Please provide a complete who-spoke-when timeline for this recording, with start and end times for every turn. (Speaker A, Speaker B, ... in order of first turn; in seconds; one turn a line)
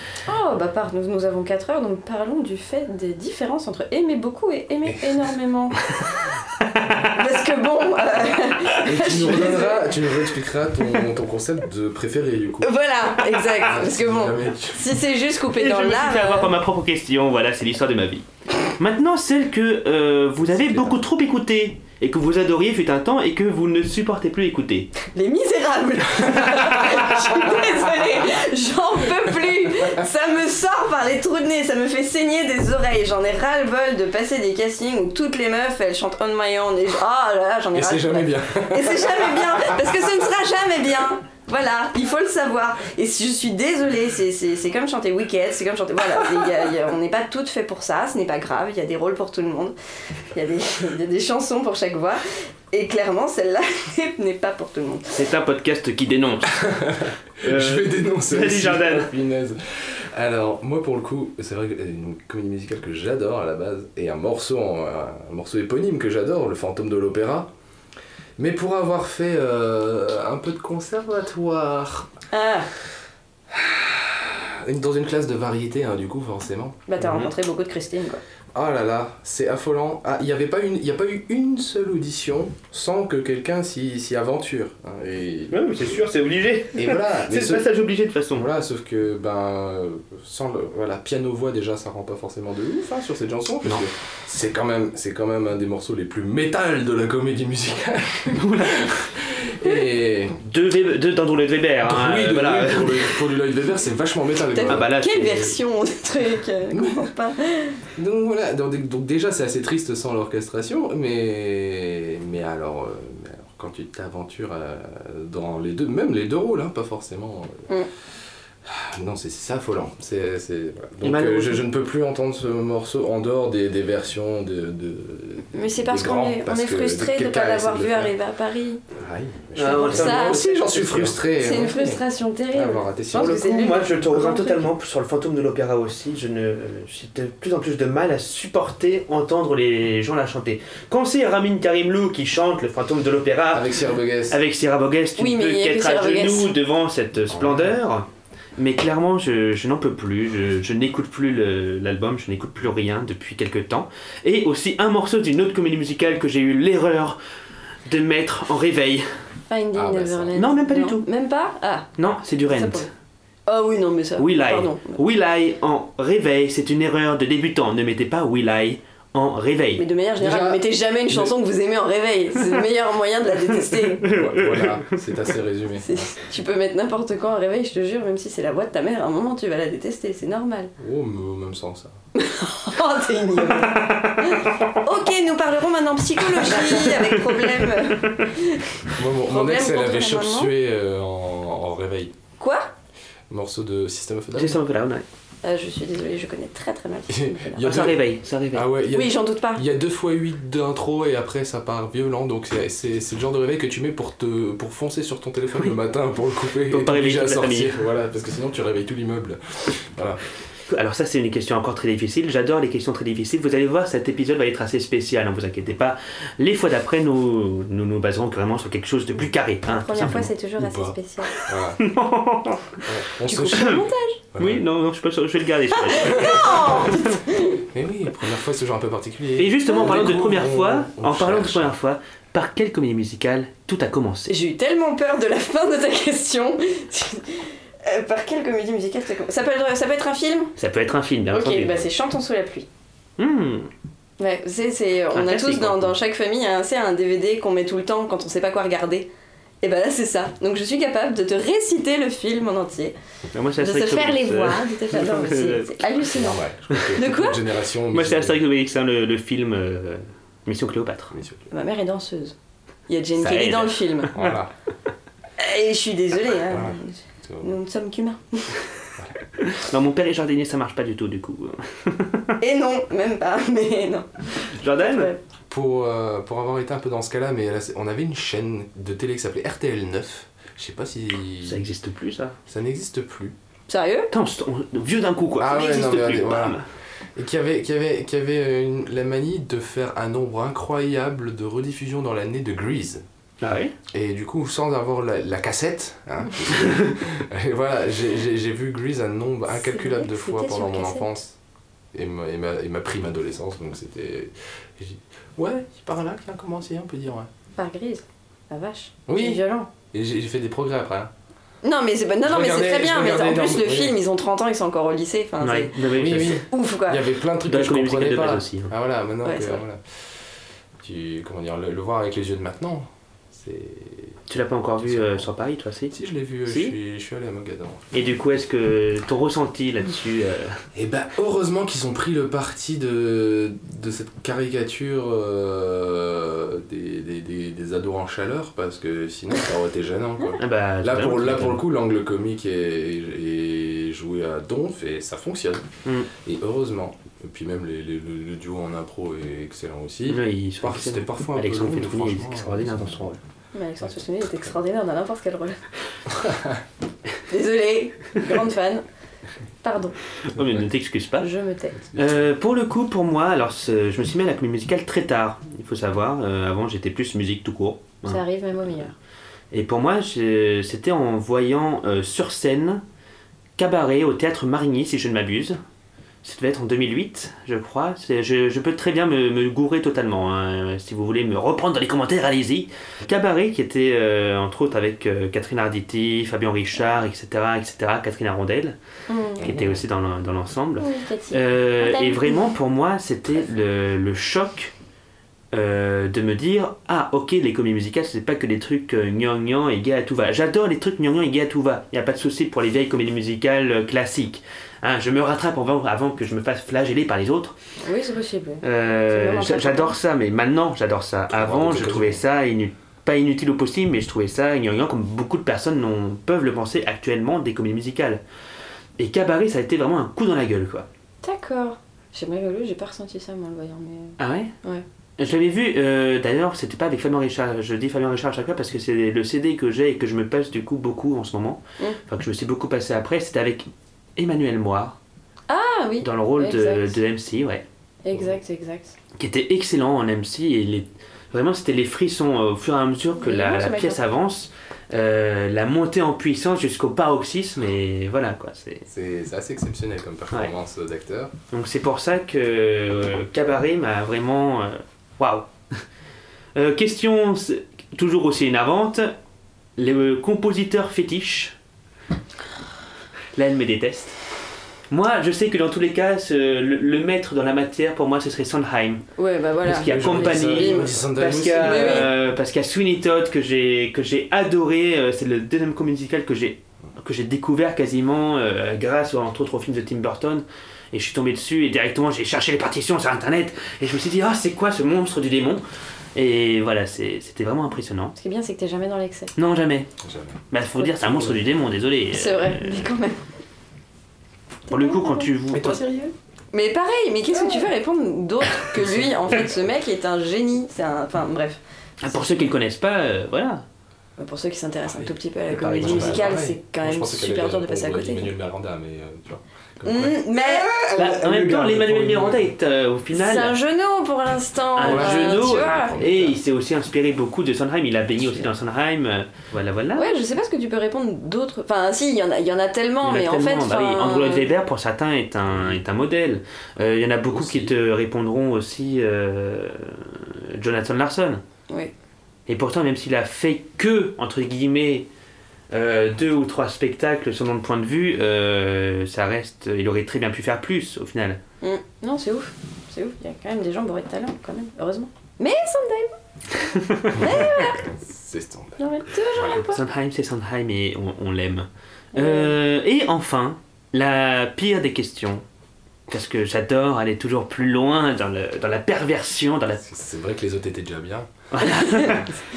Speaker A: 0.3-6.3
Speaker B: 6.6-7.1
Speaker A: 7.1-10.0
Speaker C: 8.8-12.7
Speaker A: 12.6-16.5
Speaker C: 13.5-15.0
Speaker B: 15.5-24.9
Speaker C: 20.5-21.0
Speaker A: 25.1-49.7
Speaker C: 37.7-39.9
Speaker A: 50.3-55.2
Speaker B: 55.1-56.8
Speaker C: 56.5-67.5
Speaker B: 57.4-59.1
Speaker C: 68.4-72.1
Speaker A: 72.3-72.7
Speaker C: 73.5-76.8
Speaker A: 76.9-78.2
Speaker B: 77.0-77.3
Speaker C: 78.5-86.0
Speaker B: 85.5-88.5
Speaker C: 86.7-87.7
Speaker C: 88.3-100.4
Speaker B: 98.3-99.0
Speaker B: 100.4-103.2
Speaker C: 101.8-104.9
Speaker A: 104.5-107.8
Speaker B: 104.6-105.5
Speaker C: 106.7-107.1
Speaker C: 107.9-117.7
Speaker C: 118.7-128.1
Speaker B: 121.0-121.6
Speaker A: 125.5-128.8
Speaker C: 128.9-133.4
Speaker B: 129.6-131.2
Speaker A: 129.8-130.6
Speaker A: 131.3-134.7
Speaker B: 133.1-143.7
Speaker C: 143.5-144.4
Speaker B: 144.3-157.2
Speaker A: 145.2-146.5
Speaker C: 147.3-147.7
Speaker B: 157.8-159.1
Speaker A: 159.5-161.9
Speaker C: 159.7-160.4
Speaker B: 160.3-161.1
Speaker B: 162.0-162.9
Speaker A: 162.5-162.9
Speaker A: 163.5-165.0
Speaker B: 164.2-169.8
Speaker A: 169.8-174.1
Speaker C: 170.2-171.3
Speaker B: 174.0-175.0
Speaker C: 174.1-176.1
Speaker A: 175.8-180.7
Speaker C: 180.8-181.9
Speaker A: 182.2-190.5
Speaker B: 183.6-184.8
Speaker B: 186.5-188.3
Speaker C: 188.9-192.1
Speaker A: 192.4-192.7
Speaker C: 193.3-194.6
Speaker B: 194.3-195.1
Speaker A: 195.4-197.7
Speaker C: 197.1-210.2
Speaker B: 197.6-198.7
Speaker A: 198.9-199.6
Speaker B: 206.7-207.8
Speaker B: 210.7-220.3
Speaker A: 219.7-221.4
Speaker C: 220.6-221.8
Speaker B: 221.4-222.8
Speaker C: 222.8-224.6
Speaker A: 223.2-224.2
Speaker B: 223.5-223.8
Speaker B: 224.4-227.2
Speaker A: 225.8-227.6
Speaker C: 226.1-226.9
Speaker C: 227.6-231.8
Speaker B: 229.4-234.3
Speaker A: 234.3-240.5
Speaker B: 240.6-241.8
Speaker A: 241.3-242.7
Speaker B: 243.2-243.7
Speaker A: 244.2-249.1
Speaker B: 245.1-245.9
Speaker A: 249.6-252.9
Speaker B: 253.3-255.7
Speaker A: 253.6-256.4
Speaker C: 256.1-258.4
Speaker A: 256.9-257.4
Speaker B: 257.9-261.1
Speaker C: 261.1-261.4
Speaker A: 261.5-262.3
Speaker A: 262.9-264.2
Speaker B: 263.2-264.3
Speaker C: 264.1-264.5
Speaker A: 265.4-268.6
Speaker C: 266.5-267.5
Speaker B: 269.4-272.3
Speaker A: 272.4-275.2
Speaker B: 274.5-275.1
Speaker C: 275.5-281.6
Speaker B: 281.4-282.4
Speaker C: 282.5-283.3
Speaker A: 283.7-284.1
Speaker B: 284.1-286.7
Speaker C: 285.4-286.6
Speaker C: 287.2-293.0
Speaker B: 293.4-293.7
Speaker C: 293.9-301.4
Speaker A: 299.6-301.1
Speaker C: 301.9-307.3
Speaker A: 307.6-309.7
Speaker C: 309.1-311.1
Speaker A: 311.6-317.1
Speaker C: 312.2-314.0
Speaker B: 315.4-316.4
Speaker C: 315.9-320.1
Speaker B: 317.4-318.7
Speaker A: 319.2-319.6
Speaker C: 320.8-324.2
Speaker B: 324.3-325.9
Speaker C: 324.8-325.3
Speaker C: 325.9-327.9
Speaker B: 326.4-326.7
Speaker B: 327.9-330.6
Speaker C: 330.7-345.6
Speaker B: 340.4-341.6
Speaker B: 345.8-346.1
Speaker C: 346.2-353.1
Speaker B: 350.1-353.2
Speaker A: 353.5-355.6
Speaker C: 356.2-356.6
Speaker A: 357.3-358.8
Speaker A: 359.6-359.9
Speaker B: 360.2-361.3
Speaker A: 361.2-361.8
Speaker C: 361.9-362.2
Speaker B: 361.9-368.2
Speaker A: 368.1-368.9
Speaker B: 369.5-372.8
Speaker B: 373.6-375.6
Speaker B: 376.2-388.8
Speaker A: 389.1-389.5
Speaker B: 389.4-394.7
Speaker A: 390.8-392.4
Speaker B: 395.5-407.6
Speaker A: 407.8-409.9
Speaker B: 408.6-418.2
Speaker C: 411.3-412.2
Speaker B: 419.0-420.9
Speaker A: 421.2-424.8
Speaker B: 424.2-424.5
Speaker B: 425.2-435.0
Speaker A: 435.5-437.0
Speaker B: 436.0-437.6
Speaker A: 438.0-438.9
Speaker B: 439.2-448.9
Speaker A: 443.2-444.0
Speaker C: 448.9-451.3
Speaker B: 451.5-455.8
Speaker B: 456.6-459.1
Speaker B: 459.8-461.6
Speaker B: 463.3-464.2
Speaker B: 464.9-469.0
Speaker A: 469.2-472.1
Speaker B: 469.7-485.6
Speaker C: 469.8-472.1
Speaker B: 486.1-488.1
Speaker A: 488.2-489.3
Speaker B: 489.4-489.9
Speaker C: 490.0-490.4
Speaker B: 490.5-492.9
Speaker C: 491.0-491.4
Speaker A: 492.1-493.2
Speaker A: 494.7-502.5
Speaker B: 494.7-495.8
Speaker C: 498.7-499.5
Speaker B: 502.0-503.6
Speaker A: 504.2-508.3
Speaker C: 504.9-512.5
Speaker B: 505.5-506.3
Speaker A: 509.8-510.7
Speaker B: 510.9-513.5
Speaker A: 513.1-516.0
Speaker B: 514.8-520.1
Speaker C: 514.8-516.4
Speaker A: 520.0-524.5
Speaker B: 523.0-531.4
Speaker C: 525.5-525.8
Speaker C: 527.3-527.7
Speaker B: 532.5-535.1
Speaker B: 535.7-541.4
Speaker A: 541.6-546.2
Speaker B: 546.6-547.2
Speaker A: 547.1-547.9
Speaker C: 547.1-549.6
Speaker A: 548.8-549.8
Speaker B: 549.5-555.4
Speaker A: 552.1-552.5
Speaker B: 556.1-559.8
Speaker C: 559.8-561.3
Speaker B: 561.5-562.3